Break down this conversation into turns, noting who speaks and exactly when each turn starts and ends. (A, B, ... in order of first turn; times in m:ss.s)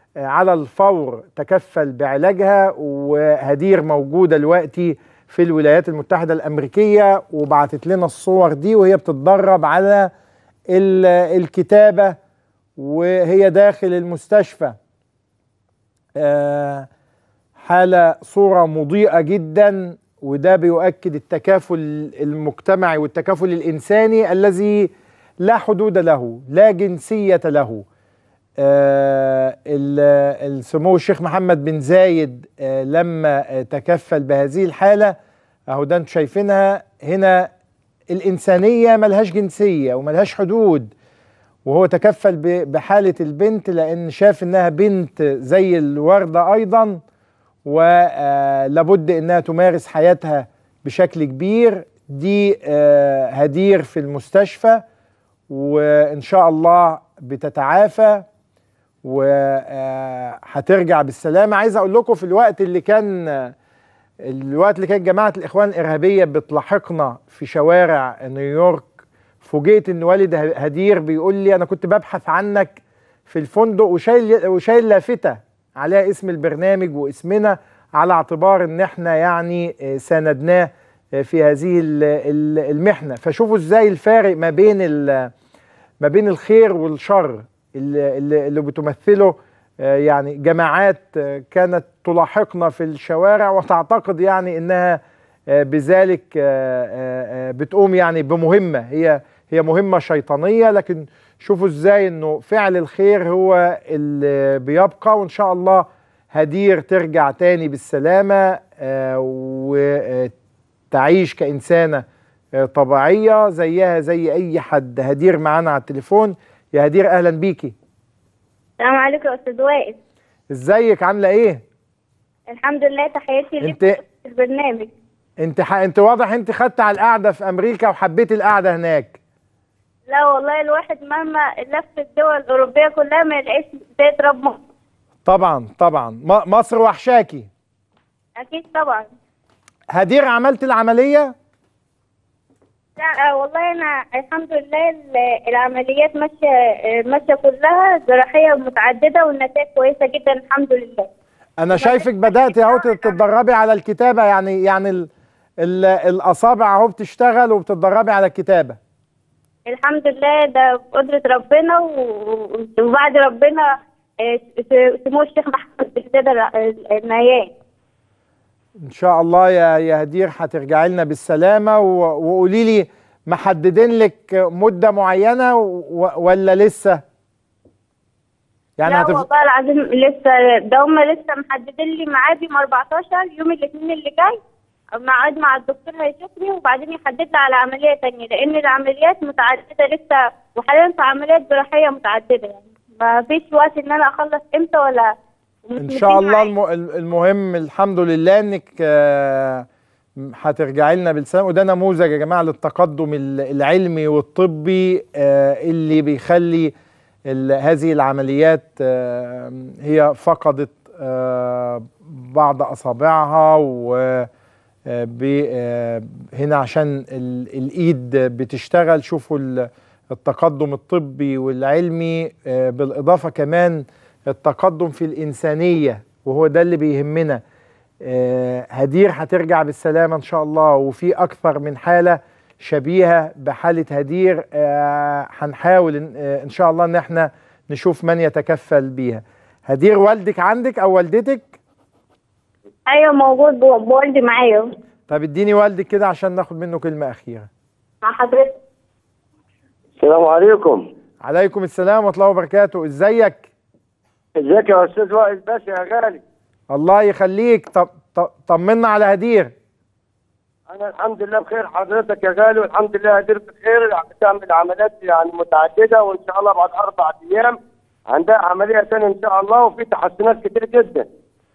0:00.2-0:10.1 A
0:10.7-0:12.2 A
0:12.8-0:14.8 A
0:16.2-0:16.9 A
0:17.6-0:24.9 A
0:25.4-0:27.8 A
0:28.6-0:35.2 A
0:35.7-0:37.5 A
0:38.1-0:40.9 A
0:41.6-0:47.0 A
0:47.6-0:54.8 A
0:55.5-0:58.2 A
0:59.0-1:03.6 A
1:04.2-1:25.3 A
1:26.0-1:50.3 A
1:50.9-1:52.0 A
1:52.6-1:57.7 A
1:58.8-2:00.0 B
2:00.5-2:01.6 A
2:02.5-2:04.9 B
2:03.6-2:04.0 A
2:05.4-2:09.2 A
2:10.1-2:14.6 B
2:15.3-2:17.5 A
2:18.4-2:19.1 B
2:19.9-2:21.3 A
2:23.0-2:31.1 B
2:31.6-2:35.1 A
2:31.7-2:33.1 B
2:35.6-2:38.8 A
2:39.7-2:43.7 B
2:44.2-2:47.5 B
2:48.8-2:57.0 A
2:58.8-2:59.2 A
2:58.9-3:04.4 B
3:05.0-3:15.1 B
3:15.7-3:16.5 B
3:15.8-3:19.7 A
3:20.2-3:26.7 A
3:27.3-3:34.3 A
3:34.9-3:47.4 A
3:48.0-4:01.6 A
4:02.9-4:04.7 B
4:05.1-4:07.5 A
4:08.0-4:08.6 B
4:10.0-4:10.8 C
4:11.2-4:13.5 A
4:14.4-4:16.2 C
4:16.7-4:19.5 A
4:20.7-4:27.6 C
4:28.1-4:31.1 C